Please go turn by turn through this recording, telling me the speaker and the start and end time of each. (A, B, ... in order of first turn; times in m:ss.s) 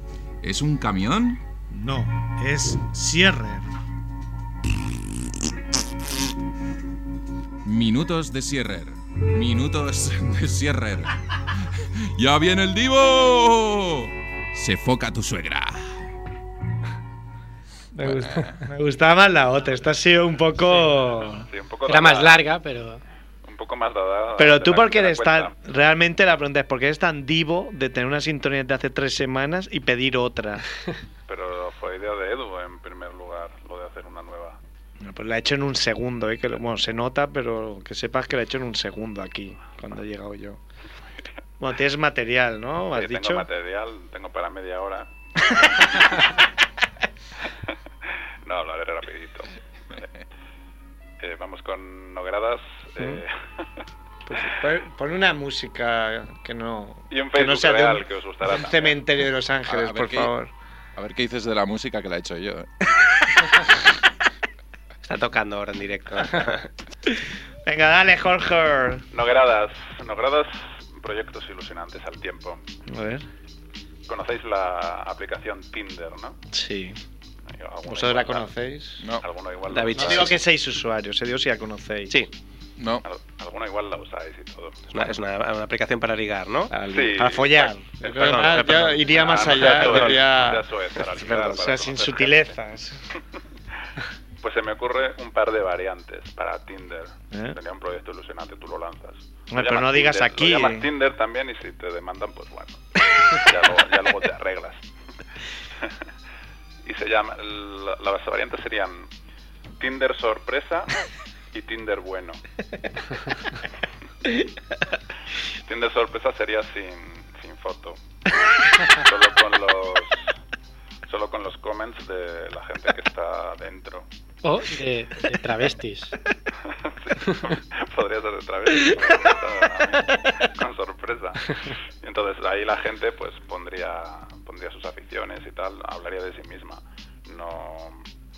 0:00.4-0:01.4 A
0:01.7-0:03.7 B
0:07.6-0:11.1 A
0:12.2-0:15.8 A
0:17.9-0:21.5 B
0:18.0-0:18.7 A
0:21.5-0:22.4 C
0:21.9-0:23.0 D
0:23.4-0:25.5 C
0:24.4-0:30.6 B
0:31.3-0:34.6 C
0:35.0-0:40.6 B
0:41.6-0:43.5 B
0:42.9-0:46.3 C
0:48.4-0:49.5 C
0:51.2-0:53.3 C
0:54.2-1:00.5 B
0:57.1-0:59.0 C
0:59.7-1:00.3 A
1:01.0-1:02.7 A
1:05.0-1:06.7 E
1:07.6-1:09.0 B
1:09.1-1:12.6 C
1:12.9-1:13.2 B
1:14.1-1:16.4 C
1:16.5-1:17.0 B
1:17.5-1:18.5 C
1:17.8-1:19.0 B
1:19.2-1:20.4 C
1:19.7-1:20.4 E
1:19.9-1:22.2 B
1:22.8-1:23.0 A
1:23.0-1:24.9 C
1:24.9-1:26.7 E
1:26.7-1:33.0 B
1:26.9-1:32.5 C
1:28.1-1:30.3 E
1:34.4-1:44.8 C
1:37.3-1:37.6 B
1:39.5-1:40.9 B
1:46.8-1:49.1 C
1:49.8-1:50.9 C
1:51.5-1:52.4 C
1:55.6-1:58.0 C
1:58.9-2:00.3 C
2:01.1-2:04.1 C
2:04.4-2:06.1 D
2:06.8-2:18.0 C